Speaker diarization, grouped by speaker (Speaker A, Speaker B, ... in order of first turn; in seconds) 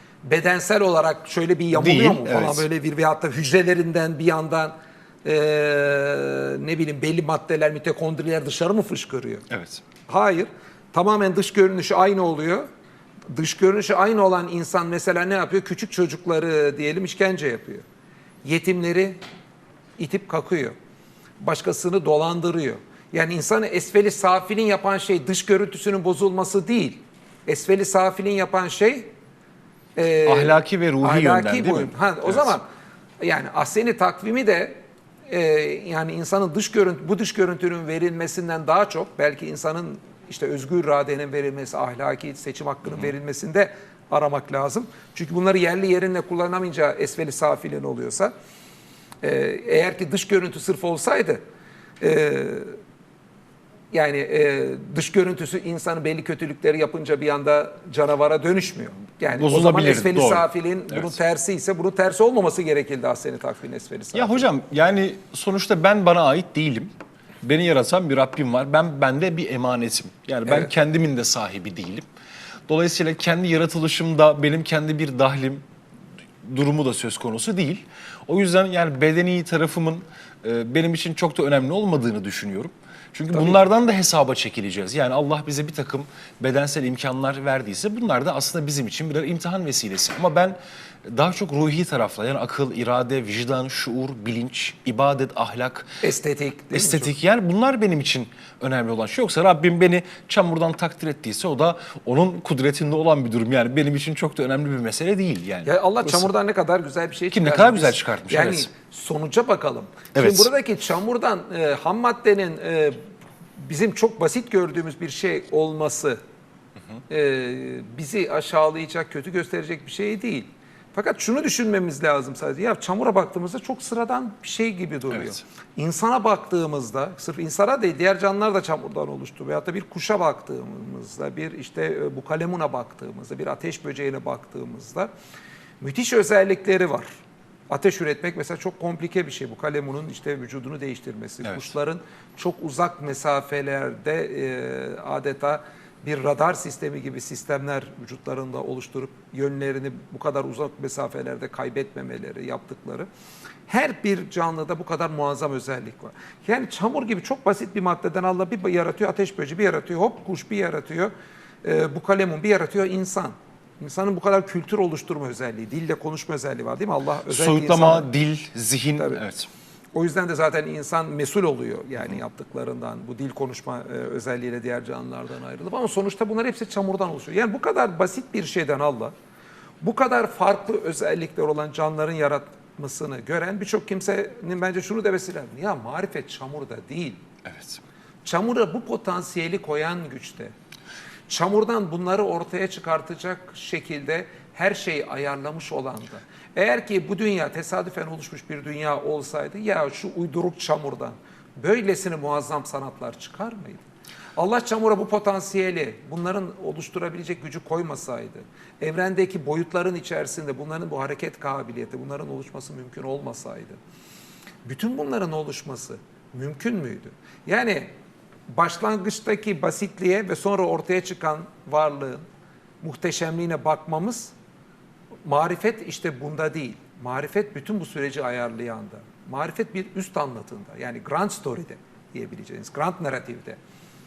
Speaker A: 0.2-9.4, 10.1-12.7, 13.3-17.8, 18.4-19.2, 20.0-20.7, 21.4-29.1, 29.9-32.6, 33.2-48.3, 49.2-51.4, 52.0-52.7, 53.9-64.5, 70.5-70.7, 83.3-83.6, 96.0-97.1, 105.6-113.0, 113.6-116.2, 117.1-135.1, 135.8-137.1, 137.7-153.1, 153.7-161.1, 161.6-168.1, 169.0-169.2, 169.9-179.1, 179.8-187.2, 188.2-190.5, 191.3-203.8, 204.3-213.8, 214.6-217.9, 218.5-222.2, 222.8-224.3, 225.2-233.6
Speaker B: 1.7-2.6, 9.5-9.8, 30.2-32.5, 59.3-61.1, 64.1-66.9, 67.4-72.0, 72.7-75.6, 76.4-96.0, 96.7-106.3, 107.3-108.7, 110.1-110.5, 125.1-125.4, 141.4-141.7, 167.3-169.5, 187.4-187.8